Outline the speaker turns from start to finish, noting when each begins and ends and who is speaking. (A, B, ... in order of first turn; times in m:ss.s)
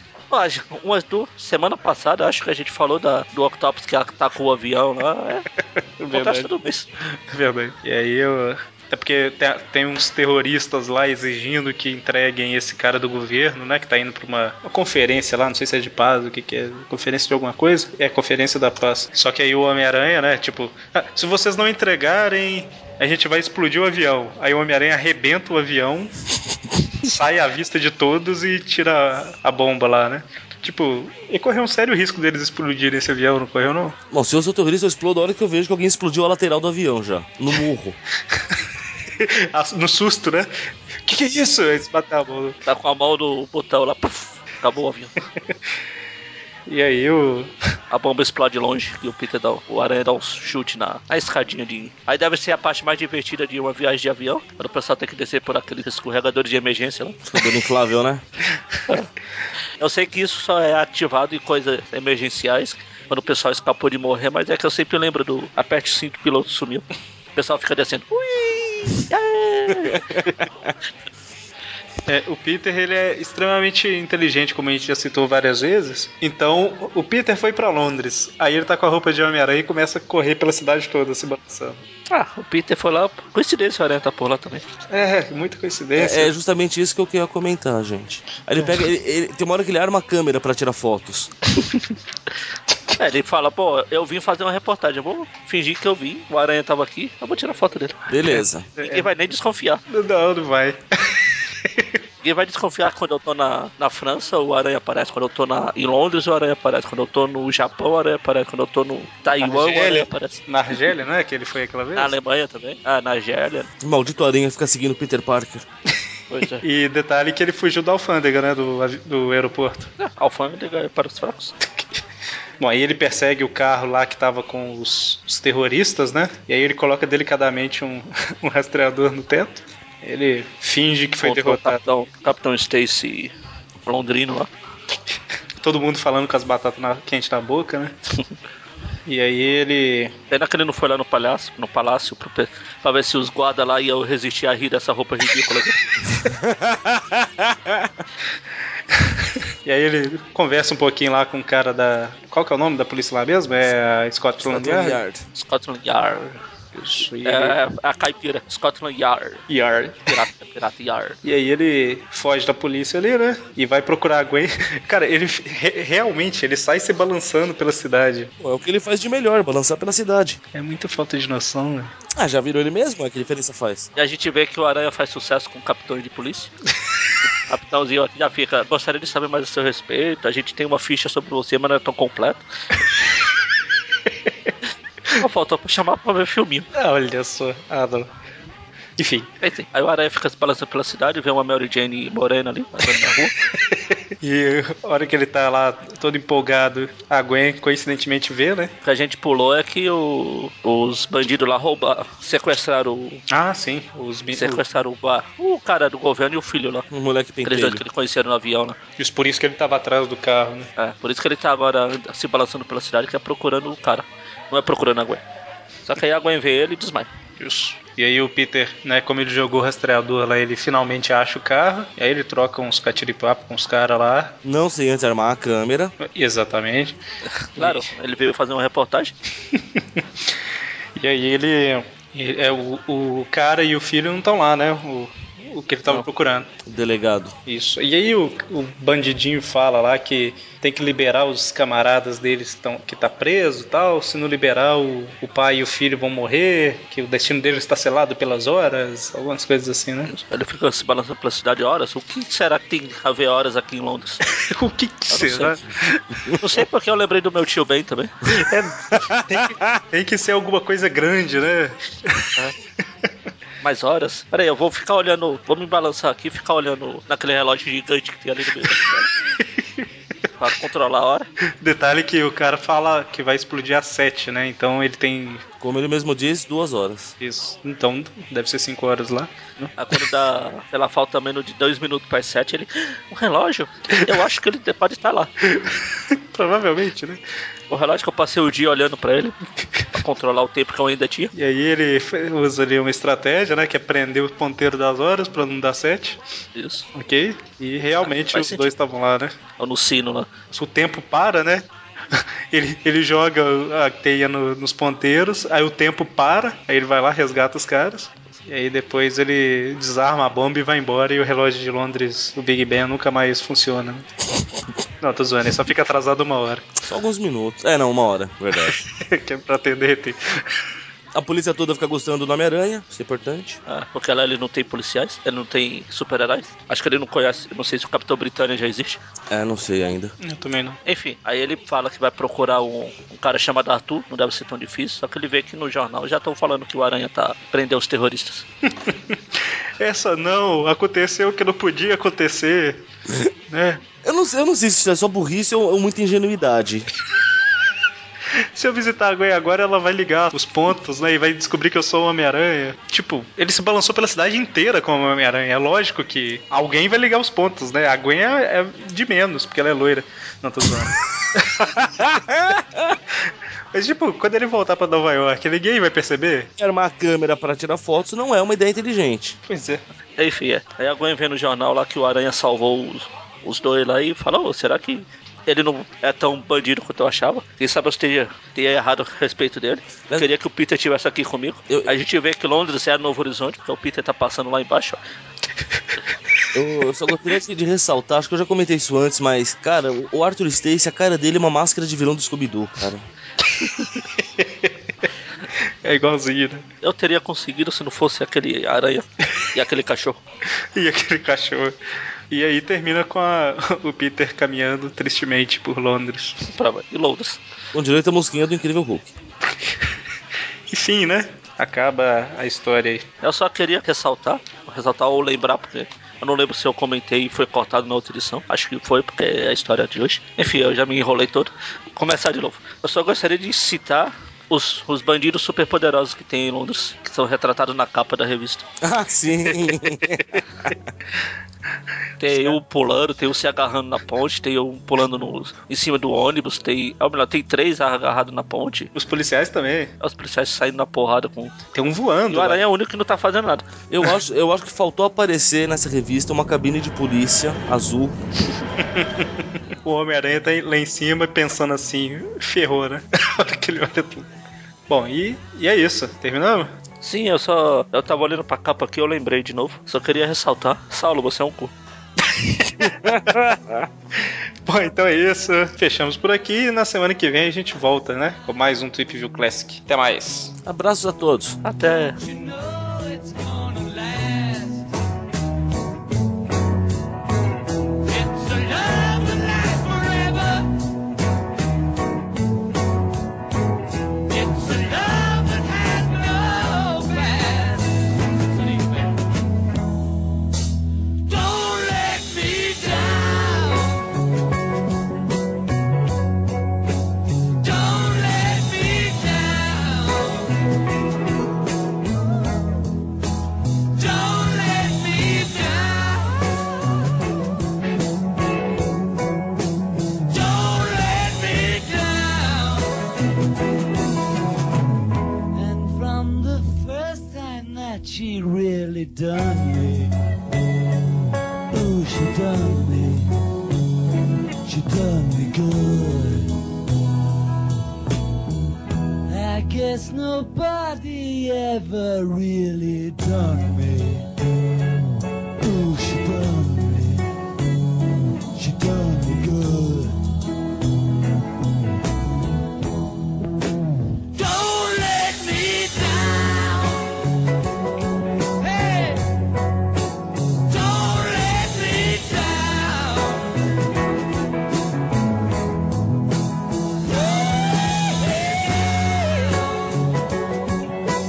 0:00.3-0:05.5 A
0:06.0-0:06.5 B
0:06.1-0:06.9 A
0:07.1-0:26.1 B
0:27.0-0:34.0 B
0:34.1-0:38.0 C
0:38.3-0:38.6 B
0:39.1-0:40.5 B
0:41.0-0:42.6 B
0:42.7-0:45.1 A
0:46.7-0:47.5 B
0:47.9-0:57.3 A
0:57.3-0:58.2 C
0:59.8-1:10.4 A
1:09.9-1:10.7 C
1:12.1-1:21.8 B
1:22.1-1:24.7 A
1:24.9-1:26.3 B
1:26.0-1:31.3 C
1:33.0-1:38.0 A
1:38.1-1:38.7 C
1:38.3-1:39.1 B
1:38.8-1:39.8 A
1:39.9-1:42.0 B
1:42.2-1:50.4 A
1:49.4-1:52.2 B
1:52.0-1:53.7 A
1:53.8-1:55.7 C
1:56.3-1:56.6 A
1:56.6-1:59.9 B
2:00.0-2:01.6 A
2:02.6-2:11.8 B
2:11.2-2:13.3 A
2:13.9-2:14.5 A
2:15.6-2:18.0 B
2:19.1-2:20.2 B
2:20.3-2:25.8 A
2:26.2-2:27.9 C
2:28.9-2:35.0 B
2:34.4-2:35.2 C
2:35.4-2:36.4 A
2:36.8-2:37.6 B
2:37.2-2:41.2 A
2:39.5-2:40.2 B
2:41.2-2:48.3 B
2:48.4-2:50.4 C
2:50.5-2:52.0 B
2:52.2-2:53.9 C
2:54.0-2:56.5 A
2:57.5-3:02.4 A
3:05.1-3:06.7 A
3:06.8-3:08.1 B
3:09.0-3:09.3 B
3:09.4-3:13.3 A
3:13.6-3:18.7 B
3:18.8-3:23.2 A
3:23.3-3:24.6 B
3:24.4-3:26.9 A
3:26.9-3:27.8 C
3:27.4-3:28.8 A
3:29.0-3:30.7 B
3:30.8-3:35.2 A
3:35.9-3:37.1 A
3:37.4-3:44.4 B
3:44.4-3:45.9 C
3:46.0-3:47.0 B
3:47.3-3:49.2 A
3:47.6-3:47.9 B
3:49.5-3:50.0 B
3:51.0-3:56.5 B
3:56.7-3:57.4 C
3:57.5-4:10.1 B
4:10.1-4:14.2 A
4:14.3-4:16.3 B
4:15.1-4:15.6 A
4:16.4-4:18.1 A
4:18.3-4:22.4 B
4:19.0-4:19.8 C
4:23.6-4:29.1 A
4:29.4-4:29.8 B
4:30.4-4:31.3 A
4:31.6-4:35.4 B
4:35.6-4:37.1 C
4:37.2-4:39.7 B
4:39.8-4:45.3 A
4:45.5-4:47.2 B
4:47.7-4:49.4 A
4:49.9-4:51.3 A
4:51.4-4:56.2 B
4:56.6-4:56.9 A
4:57.0-4:59.4 B
4:58.0-4:58.7 A
4:59.6-5:00.3 A
5:00.5-5:14.1 B
5:15.0-5:16.8 B
5:16.9-5:18.8 C
5:18.7-5:20.6 B
5:21.1-5:23.6 C
5:23.7-5:29.0 A
5:29.3-5:30.1 C
5:30.2-5:30.8 B
5:30.9-5:38.4 A
5:38.8-5:39.2 B
5:39.8-5:42.8 B
5:43.5-5:43.8 B
5:44.0-5:46.9 C
5:48.3-6:02.1 B
6:01.9-6:03.0 C
6:03.1-6:06.5 B
6:06.6-6:09.4 C
6:09.5-6:09.8 B
6:10.2-6:25.0 A
6:26.5-6:33.0 C
6:33.6-6:33.9 A
6:34.1-6:34.7 B
6:35.8-6:36.6 B
6:36.8-6:40.2 A
6:40.8-6:41.8 B
6:42.3-6:46.4 B
6:46.4-6:47.4 A
6:47.7-6:49.1 C
6:50.7-6:53.1 B
6:53.2-7:08.7 A
7:08.8-7:10.7 C
7:12.2-7:18.9 A
7:12.3-7:12.6 B
7:19.0-7:19.9 B
7:20.0-7:21.6 A
7:21.7-7:22.6 B
7:22.3-7:23.7 A
7:23.9-7:28.2 C
7:28.8-7:29.3 B
7:29.8-7:34.3 B
7:34.9-7:36.7 B
7:37.0-7:41.7 A
7:42.2-7:43.3 B
7:42.8-7:43.9 C
7:44.2-7:50.5 B
7:50.6-7:51.6 C
7:51.6-7:52.2 A
7:52.2-7:54.9 D
7:58.0-8:00.7 D
8:04.3-8:08.1 D
8:08.6-8:09.1 D
8:11.2-8:14.1 D
8:17.6-8:20.6 D
8:24.0-8:27.0 D
8:30.3-8:33.1 D
8:35.5-8:40.2 D
8:41.7-8:43.3 D
8:44.6-8:46.6 D
8:49.3-8:54.6 D
8:55.6-8:57.3 D
8:58.6-9:00.3 D
9:04.3-9:07.3 D
9:08.6-9:09.2 D
9:10.6-9:13.6 D
9:17.1-9:19.7 D